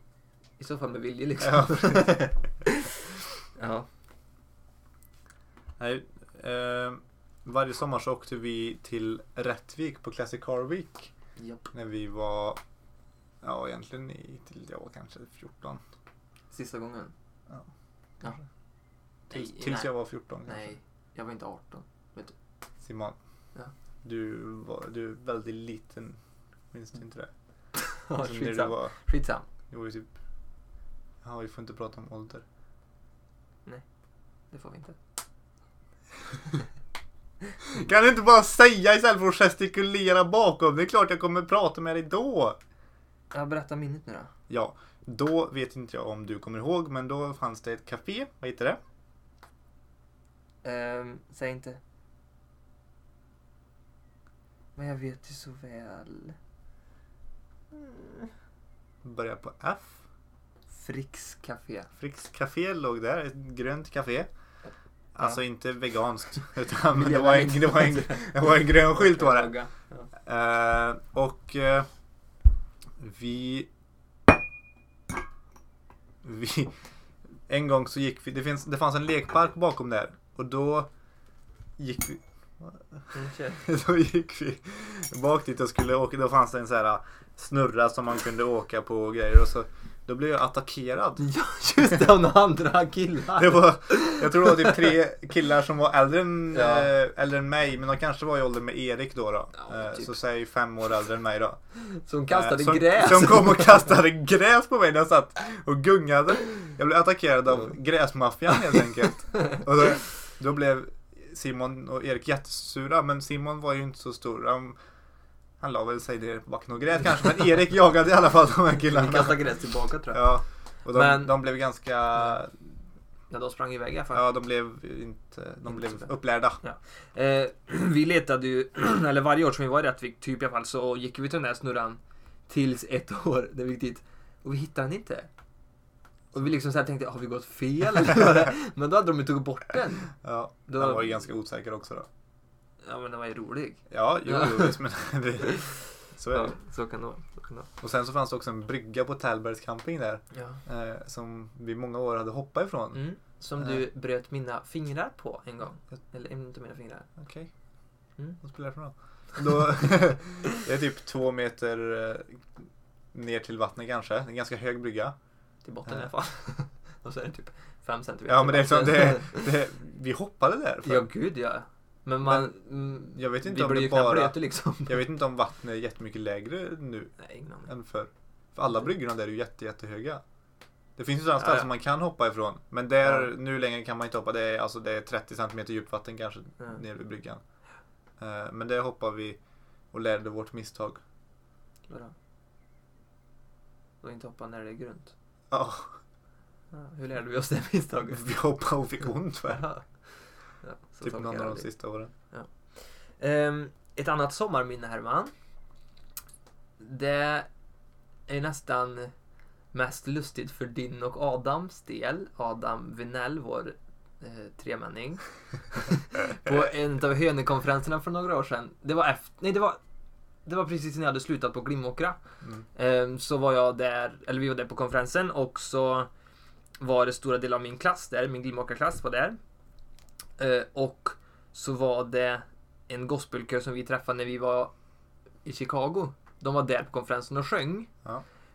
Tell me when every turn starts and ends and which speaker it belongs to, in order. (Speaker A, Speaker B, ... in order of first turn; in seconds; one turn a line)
Speaker A: 0.6-2.9
Speaker B: 1.4-2.2
Speaker A: 3.5-3.9
Speaker B: 5.8-11.1
Speaker A: 11.4-11.7
Speaker B: 11.7-12.6
Speaker B: 13.4-15.8
Speaker A: 16.5-17.1
Speaker A: 19.3-19.9
Speaker B: 19.3-20.7
Speaker A: 20.4-22.3
Speaker B: 22.8-23.1
Speaker B: 24.0-26.2
Speaker B: 26.7-27.3
Speaker A: 27.9-29.4
Speaker B: 28.2-28.9
Speaker B: 29.7-30.1
Speaker B: 31.2-32.4
Speaker A: 34.5-35.0
Speaker B: 37.6-42.6
Speaker A: 43.3-44.3
Speaker B: 44.5-48.8
Speaker A: 50.6-51.8
Speaker A: 54.8-56.4
Speaker A: 57.7-58.3
Speaker B: 59.0-60.0
Speaker A: 60.7-61.9
Speaker B: 62.0-64.3
Speaker B: 65.1-69.5
Speaker A: 66.9-70.1
Speaker B: 70.3-71.9
Speaker B: 73.0-73.7
Speaker B: 76.2-76.7
Speaker B: 77.5-80.9
Speaker B: 81.8-91.2
Speaker A: 83.1-83.6
Speaker A: 91.2-94.9
Speaker B: 93.3-101.6
Speaker A: 96.5-96.9
Speaker A: 99.6-100.2
Speaker A: 102.0-103.9
Speaker B: 102.3-114.8
Speaker B: 115.6-119.4
Speaker A: 118.8-120.3
Speaker B: 120.1-122.6
Speaker A: 120.9-121.4
Speaker A: 123.3-124.3
Speaker B: 124.1-126.6
Speaker A: 125.7-135.3
Speaker A: 136.3-140.1
Speaker B: 140.2-142.1
Speaker A: 140.7-141.2
Speaker A: 142.8-144.8
Speaker B: 143.9-146.6
Speaker A: 145.5-145.8
Speaker A: 146.3-147.7
Speaker B: 147.8-153.0
Speaker A: 150.3-150.6
Speaker A: 152.9-157.1
Speaker B: 153.6-153.8
Speaker B: 157.2-157.5
Speaker B: 158.4-162.4
Speaker A: 159.3-159.7
Speaker B: 163.1-165.1
Speaker A: 165.6-169.5
Speaker B: 168.3-171.1
Speaker A: 170.8-175.1
Speaker B: 172.2-172.5
Speaker B: 173.1-177.1
Speaker A: 177.2-177.7
Speaker B: 177.6-180.2
Speaker B: 181.0-187.4
Speaker A: 181.4-181.7
Speaker A: 183.0-183.3
Speaker B: 188.2-189.4
Speaker B: 189.9-191.0
Speaker A: 194.0-195.1
Speaker B: 195.5-195.9
Speaker A: 196.7-198.3
Speaker B: 198.1-199.7
Speaker A: 199.5-201.7
Speaker B: 201.0-202.1
Speaker A: 202.3-205.3
Speaker A: 206.8-207.5
Speaker A: 208.3-209.1
Speaker A: 209.7-219.8
Speaker A: 220.4-222.2
Speaker A: 222.7-226.1
Speaker A: 226.8-229.4
Speaker A: 230.4-234.7
Speaker A: 235.4-237.9